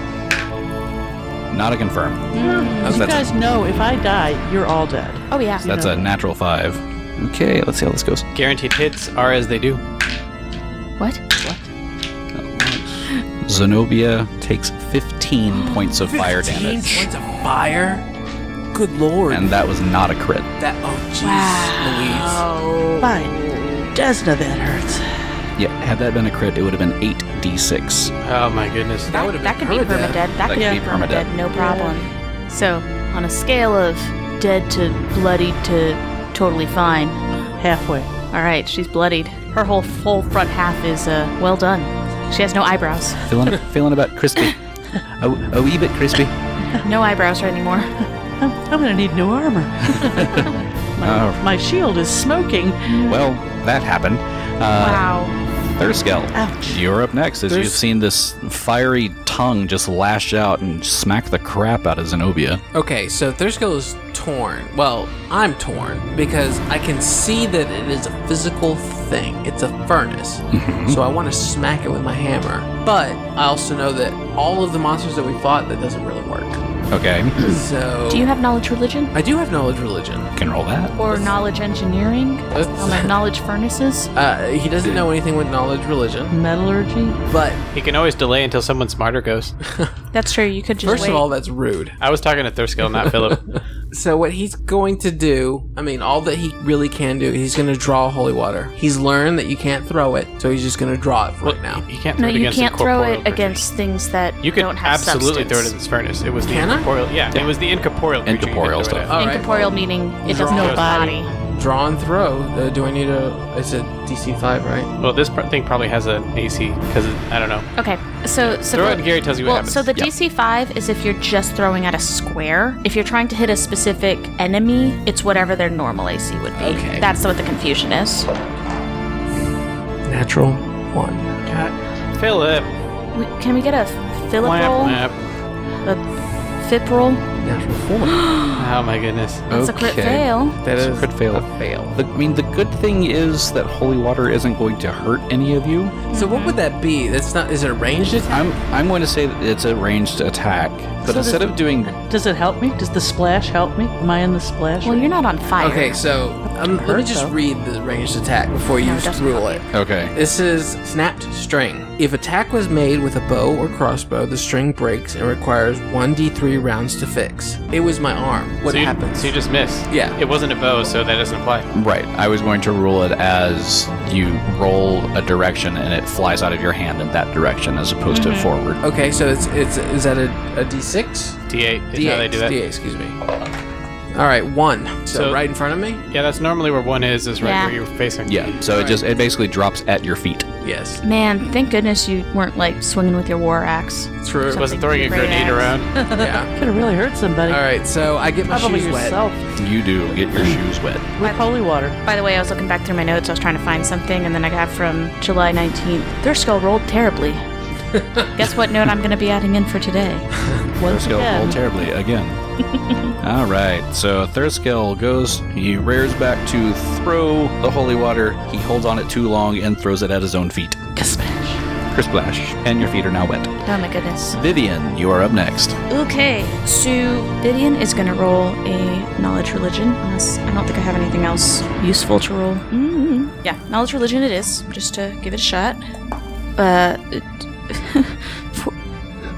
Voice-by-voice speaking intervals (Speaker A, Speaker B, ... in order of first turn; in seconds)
Speaker A: 1.5-3.3, 5.6-8.2, 12.3-17.1, 19.3-20.5, 25.6-28.1, 30.5-31.3, 43.3-44.6, 45.2-46.4, 50.2-50.5, 51.0-51.4, 53.0-55.1, 55.8-62.6, 70.5-71.0, 76.9-77.4, 80.3-81.0, 108.2-109.1, 139.5-146.0, 148.3-151.9, 159.7-160.1, 171.7-178.8, 188.2-190.5, 199.6-201.1, 210.8-212.4, 213.2-220.9, 221.9-223.5, 224.3-225.8
Speaker B: 2.3-3.0, 5.3-5.7, 21.2-23.8, 29.1-37.2, 38.3-43.5, 46.8-47.9, 54.8-55.4, 78.1-79.1, 81.0-84.1, 90.1-91.3, 102.2-105.7, 109.1-111.3, 117.8-128.3, 133.1-135.0, 135.8-137.3, 138.1-138.6, 139.5-140.6, 146.1-146.6, 154.8-156.0, 158.8-159.7, 178.1-178.5, 187.4-187.8, 191.0-196.0, 201.2-201.5, 202.0-207.5, 208.3-210.3, 223.7-224.4, 225.9-235.8, 236.6-238.7
Speaker C: 2.4-6.1, 11.4-11.7, 23.0-23.4, 23.9-25.2, 30.6-30.8, 31.5-32.0, 37.6-38.1, 48.4-53.1, 56.3-56.8, 86.3-87.2, 110.5-111.2, 151.0-155.1, 156.5-157.3, 196.4-197.7, 198.5-199.4, 201.2-202.0, 210.8-211.6, 220.9-221.6
Speaker D: 8.3-9.8, 28.2-29.1, 87.7-89.5, 92.0-93.5, 101.4-103.6, 104.4-109.4, 110.5-111.1, 115.0-117.7, 118.4-119.9, 131.5-132.7, 134.4-135.1, 138.6-139.5, 168.7-171.7, 181.5-182.6, 185.1-185.4, 186.1-188.5, 194.5-195.9
Speaker E: 16.1-18.0, 18.7-19.6, 20.6-22.4, 29.1-30.2, 57.5-57.8, 62.7-76.6, 77.4-78.3, 79.1-80.3, 82.5-83.1, 84.2-86.3, 87.3-87.6, 90.8-92.0, 93.9-101.8, 106.4-106.9, 109.1-114.9, 126.6-127.1, 130.1-131.4, 137.4-138.3, 140.6-142.0, 146.1-148.4, 155.6-169.3, 169.9-170.2, 178.8-183.2, 184.1-186.0, 188.7-189.0, 190.6-191.0, 194.2-194.7, 196.1-196.5, 197.5-199.2